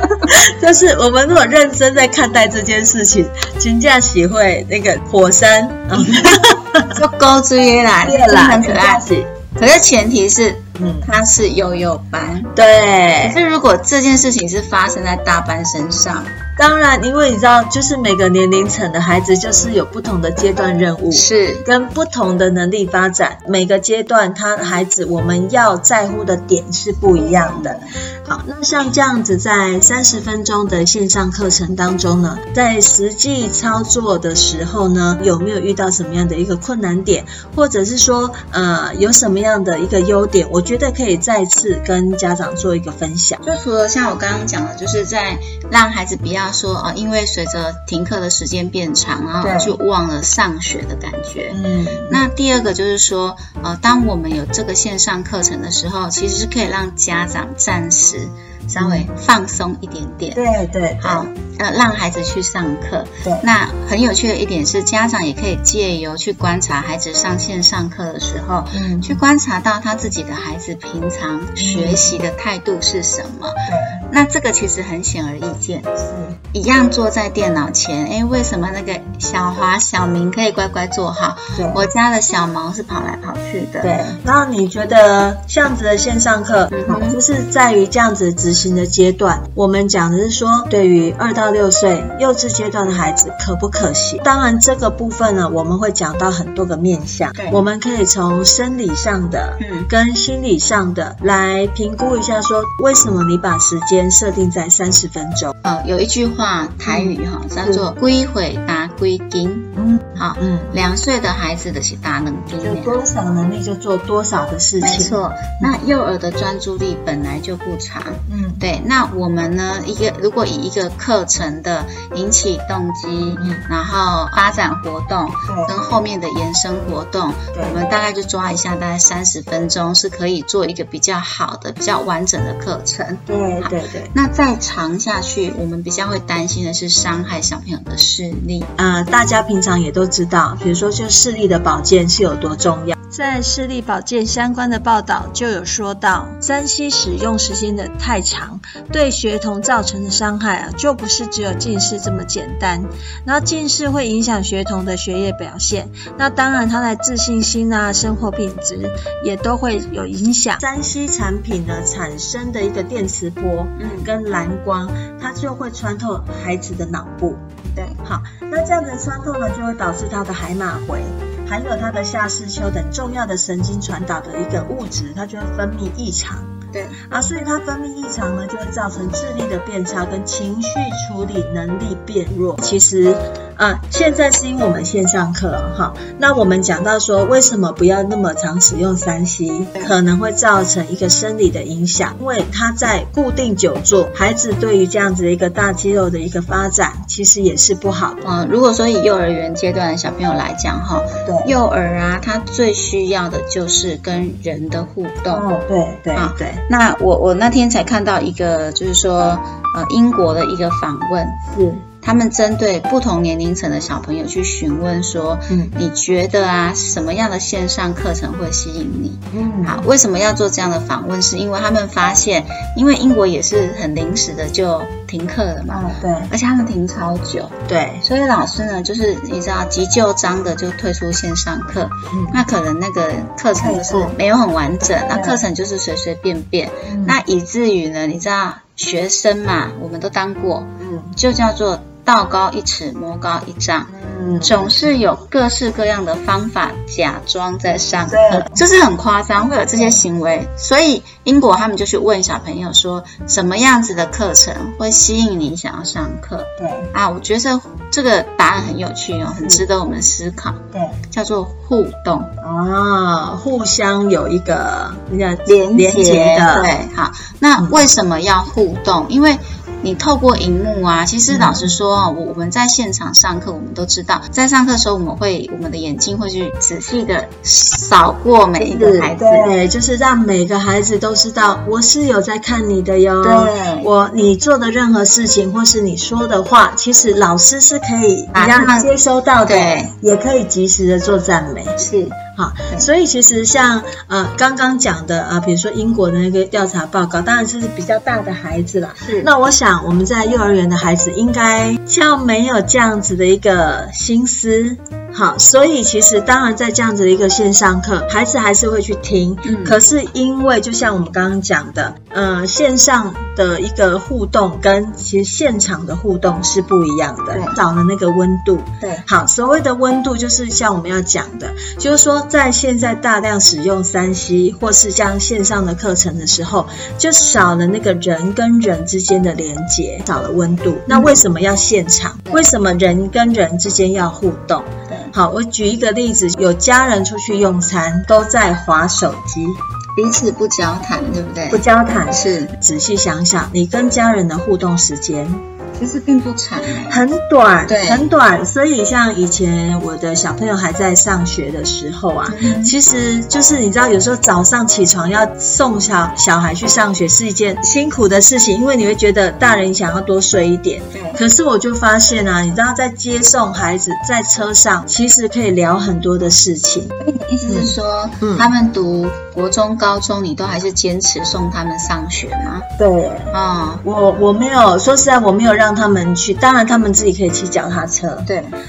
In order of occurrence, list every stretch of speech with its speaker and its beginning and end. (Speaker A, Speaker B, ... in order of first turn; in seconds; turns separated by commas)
Speaker A: 0.2-7.0, Speaker B: 6.9-12.5, Speaker A: 8.0-9.3, Speaker A: 10.8-11.1, Speaker A: 12.5-13.4, Speaker B: 13.2-16.3, Speaker A: 16.6-43.4, Speaker B: 21.1-21.6, Speaker B: 27.1-27.9, Speaker B: 43.4-60.4, Speaker A: 49.4-49.8, Speaker A: 51.5-52.2, Speaker A: 58.8-59.1, Speaker A: 60.3-61.2, Speaker B: 61.0-76.0, Speaker A: 68.7-69.2, Speaker A: 71.6-72.2, Speaker A: 73.7-74.0, Speaker A: 76.0-76.3, Speaker B: 76.5-84.0, Speaker A: 81.5-81.9, Speaker A: 83.8-105.5, Speaker B: 86.7-87.2, Speaker B: 97.3-97.6, Speaker B: 99.6-99.9, Speaker B: 105.6-113.0, Speaker A: 106.8-107.9, Speaker A: 109.8-110.8, Speaker A: 112.6-115.7, Speaker B: 114.8-138.7, Speaker A: 118.3-118.6, Speaker A: 123.3-123.6, Speaker A: 125.5-125.8, Speaker A: 127.5-127.8, Speaker A: 133.2-134.1, Speaker A: 138.8-167.4, Speaker B: 163.8-164.1, Speaker A: 168.0-176.5, Speaker B: 176.7-177.0, Speaker A: 177.0-198.2, Speaker B: 198.2-205.4, Speaker A: 201.2-201.5, Speaker A: 205.3-206.6, Speaker B: 206.1-211.4, Speaker A: 211.5-211.8, Speaker B: 212.0-262.3, Speaker A: 215.5-215.8, Speaker A: 219.3-219.9, Speaker A: 225.7-226.3, Speaker A: 227.7-228.0, Speaker A: 232.1-232.4, Speaker A: 233.6-234.1, Speaker A: 235.1-235.4, Speaker A: 236.8-237.2, Speaker A: 240.8-241.1, Speaker A: 243.9-244.8, Speaker A: 248.1-248.6, Speaker A: 249.8-250.0, Speaker A: 256.6-256.9, Speaker A: 260.7-261.0, Speaker A: 262.4-266.7, Speaker B: 265.4-279.5, Speaker A: 271.3-271.7, Speaker A: 278.6-339.6, Speaker B: 283.2-283.9, Speaker B: 288.3-288.9, Speaker B: 289.4-289.9, Speaker B: 291.8-292.2, Speaker B: 299.0-299.3, Speaker B: 309.4-309.8, Speaker B: 317.3-317.6, Speaker B: 330.9-331.2, Speaker B: 339.9-342.5, Speaker A: 341.5-345.4, Speaker B: 345.8-347.0, Speaker A: 346.9-366.9, Speaker B: 347.6-348.1, Speaker B: 352.3-352.8, Speaker B: 360.9-361.2, Speaker B: 367.0-372.7, Speaker A: 367.5-368.5, Speaker A: 372.8-378.3, Speaker B: 373.3-373.8, Speaker B: 378.2-378.6